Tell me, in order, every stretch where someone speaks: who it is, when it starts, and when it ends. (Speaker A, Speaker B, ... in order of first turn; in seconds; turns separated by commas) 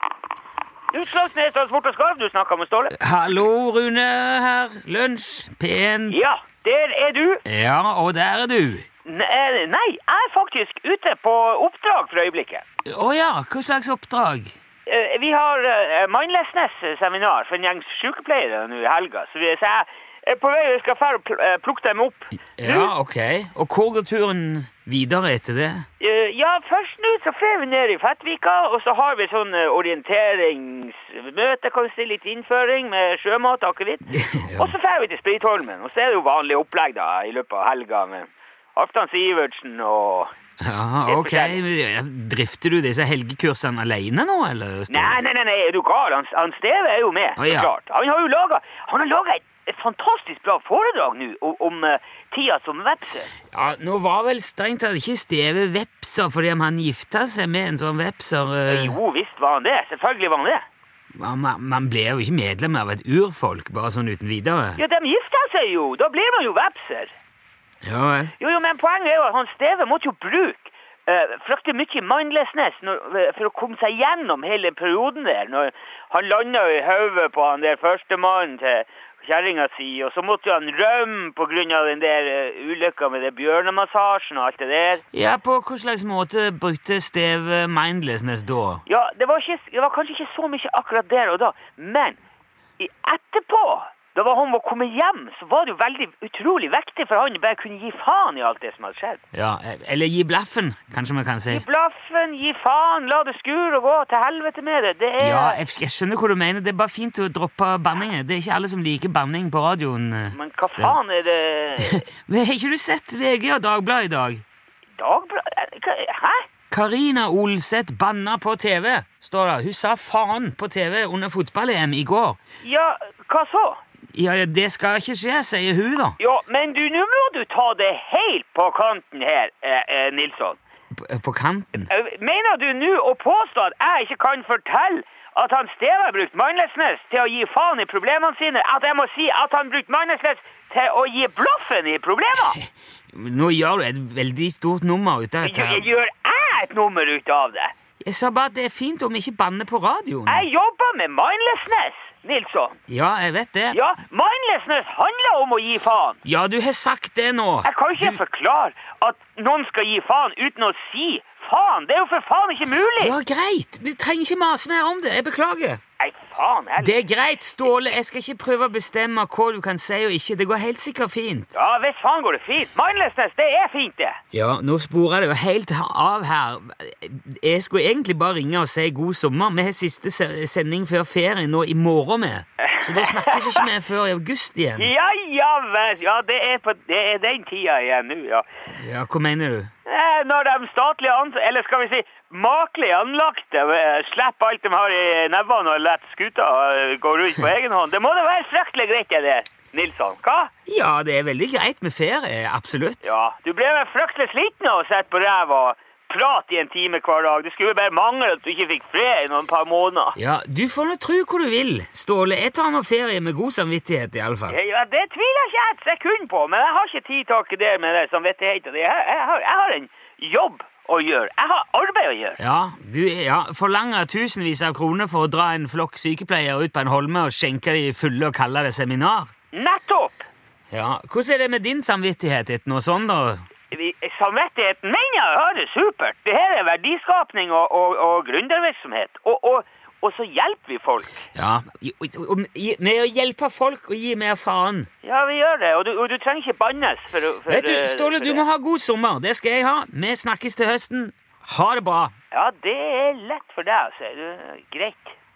Speaker A: 0.9-3.1, Speaker B: 2.9-6.2, Speaker A: 6.1-7.4, Speaker B: 7.5-8.9, Speaker A: 9.1-12.7, Speaker B: 12.8-14.5, Speaker A: 14.9-22.9, Speaker B: 22.6-25.9, Speaker A: 26.0-40.3, Speaker B: 34.1-34.7, Speaker B: 40.6-45.2, Speaker A: 41.1-41.6, Speaker A: 44.9-53.3, Speaker B: 47.4-47.7, Speaker B: 53.5-59.0, Speaker A: 58.7-60.6, Speaker B: 61.2-64.8, Speaker A: 64.8-67.1, Speaker B: 67.8-68.3, Speaker A: 68.4-85.0, Speaker B: 85.1-88.8, Speaker A: 88.9-92.2, Speaker A: 92.8-99.2, Speaker B: 99.3-101.7, Speaker A: 101.5-105.6, Speaker B: 105.2-111.0, Speaker A: 110.3-112.1, Speaker B: 111.8-114.4, Speaker A: 115.0-116.5, Speaker B: 116.7-122.4, Speaker A: 122.6-123.8, Speaker B: 124.1-126.2, Speaker A: 126.2-130.6, Speaker B: 130.9-131.9, Speaker A: 131.9-142.6, Speaker B: 142.6-145.9, Speaker A: 145.4-147.7, Speaker B: 148.0-150.4, Speaker A: 150.3-152.8, Speaker B: 152.9-153.8, Speaker A: 153.7-156.2, Speaker B: 156.2-158.2, Speaker A: 157.6-163.2, Speaker B: 163.0-165.8, Speaker A: 166.0-167.0, Speaker B: 166.8-171.5, Speaker A: 171.5-174.2, Speaker B: 174.3-184.9, Speaker A: 182.6-183.7, Speaker A: 184.8-188.4, Speaker B: 188.7-189.7, Speaker A: 189.9-200.5, Speaker B: 200.7-203.1, Speaker A: 203.0-210.2, Speaker B: 210.2-214.6, Speaker A: 214.5-222.4, Speaker B: 222.4-229.3, Speaker A: 229.5-230.3, Speaker B: 230.7-233.4, Speaker A: 233.7-241.2, Speaker B: 241.3-244.9, Speaker A: 245.0-248.4, Speaker B: 247.5-252.1, Speaker A: 252.3-255.2